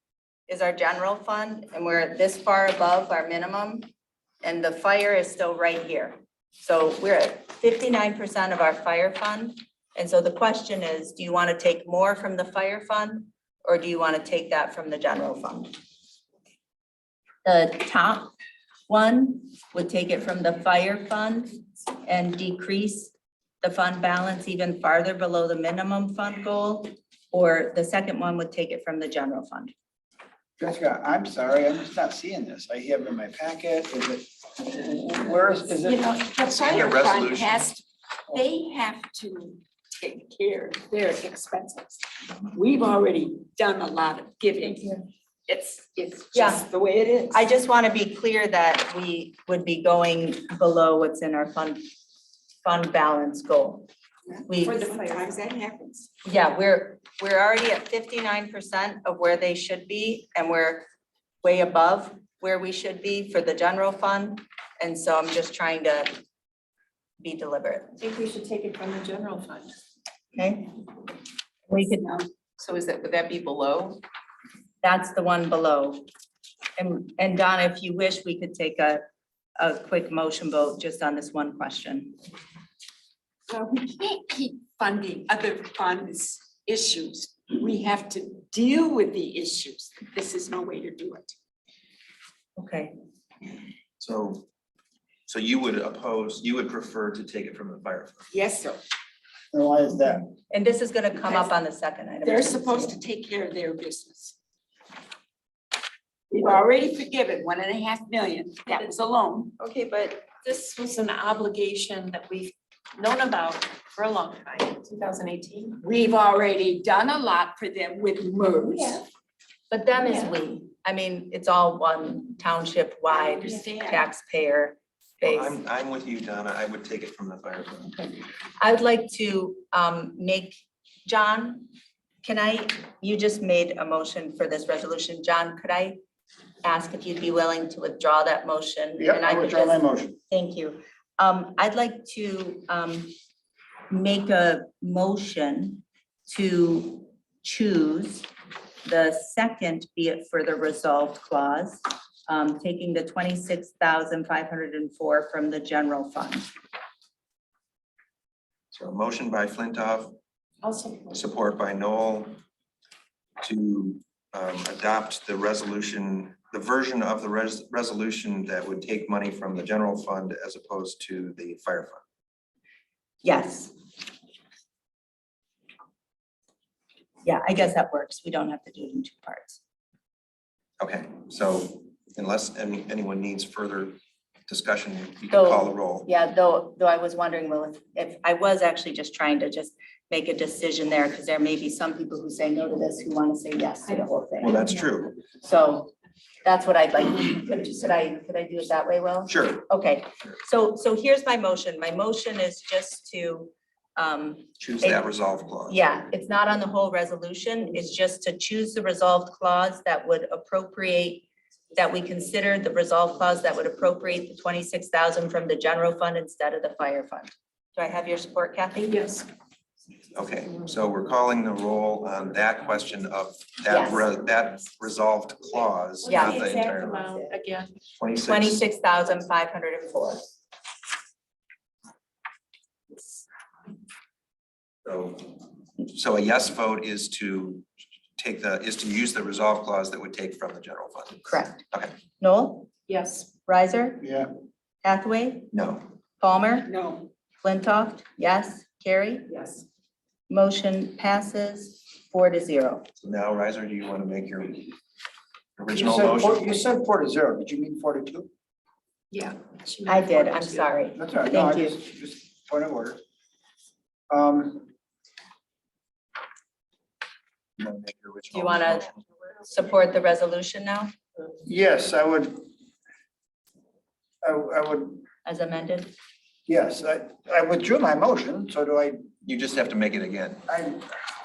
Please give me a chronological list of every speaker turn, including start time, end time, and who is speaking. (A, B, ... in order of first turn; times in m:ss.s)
0:00.5-0:03.9 A
0:04.4-0:15.7 A
0:17.4-0:18.3 A
0:18.9-0:29.7 A
0:30.6-0:36.1 B
0:35.8-0:47.4 C
0:36.6-0:37.7 D
0:46.3-0:46.6 A
0:47.3-0:51.8 A
0:52.6-0:53.9 A
0:54.5-0:54.8 A
0:54.5-0:56.1 C
0:56.2-1:00.8 A
1:01.4-1:06.1 A
1:07.2-1:07.9 A
1:08.0-1:09.7 E
1:10.3-1:10.8 A
1:11.7-1:12.1 A
1:11.8-1:12.3 C
1:12.6-1:14.0 E
1:14.8-1:16.0 A
1:16.8-1:19.0 A
1:19.6-1:22.2 A
1:23.5-1:31.3 C
1:32.6-1:32.9 A
1:34.0-1:34.4 D
1:35.3-1:38.3 D
1:38.3-1:38.8 C
1:39.5-1:40.3 B
1:40.5-1:43.0 A
1:42.2-1:44.3 C
1:46.3-1:49.6 C
1:49.6-1:55.8 E
1:55.8-1:59.0 C
1:59.7-2:05.6 A
2:03.1-2:04.1 C
2:05.2-2:08.1 D
2:08.6-2:11.7 A
2:12.2-2:16.0 A
2:16.6-2:23.1 A
2:19.0-2:20.2 B
2:23.9-2:28.3 A
2:28.8-2:36.5 A
2:38.7-2:40.1 D
2:40.6-2:41.2 E
2:41.1-2:42.3 D
2:43.4-2:52.0 D
2:53.2-2:53.7 A
2:57.2-2:59.6 A
3:00.8-3:06.1 D
3:05.3-3:14.6 A
3:14.4-3:15.2 D
3:15.3-3:15.9 A
3:16.4-3:25.0 A
3:19.3-3:19.6 D
3:24.6-3:25.8 D
3:25.7-3:39.1 A
3:38.9-3:39.2 E
3:40.1-3:47.1 D
3:43.7-3:44.0 A
3:46.0-3:47.7 E
3:46.1-3:46.4 A
3:48.0-3:48.6 D
3:48.2-3:50.2 A
3:54.8-4:01.9 D
4:01.2-4:01.6 A
4:02.2-4:02.7 A
4:02.9-4:03.3 E
4:03.4-4:04.0 A
4:04.0-4:04.3 B
4:04.8-4:05.5 A
4:05.5-4:05.8 D
4:06.2-4:06.7 A
4:06.6-4:07.1 C
4:07.4-4:09.3 A
4:10.3-4:12.8 A
4:13.0-4:14.8 D
4:15.6-4:16.6 D
4:15.7-4:18.3 B
4:19.1-4:20.1 E
4:19.1-4:20.6 C
4:19.8-4:21.8 A
4:21.0-4:23.0 B
4:24.1-4:24.7 B
4:27.6-4:29.0 D
4:28.3-4:28.9 A
4:29.4-4:30.9 A
4:31.4-4:32.5 B
4:34.2-4:35.0 B
4:35.2-4:35.9 A
4:36.5-4:39.1 B
4:39.2-4:40.4 D
4:40.5-4:40.9 B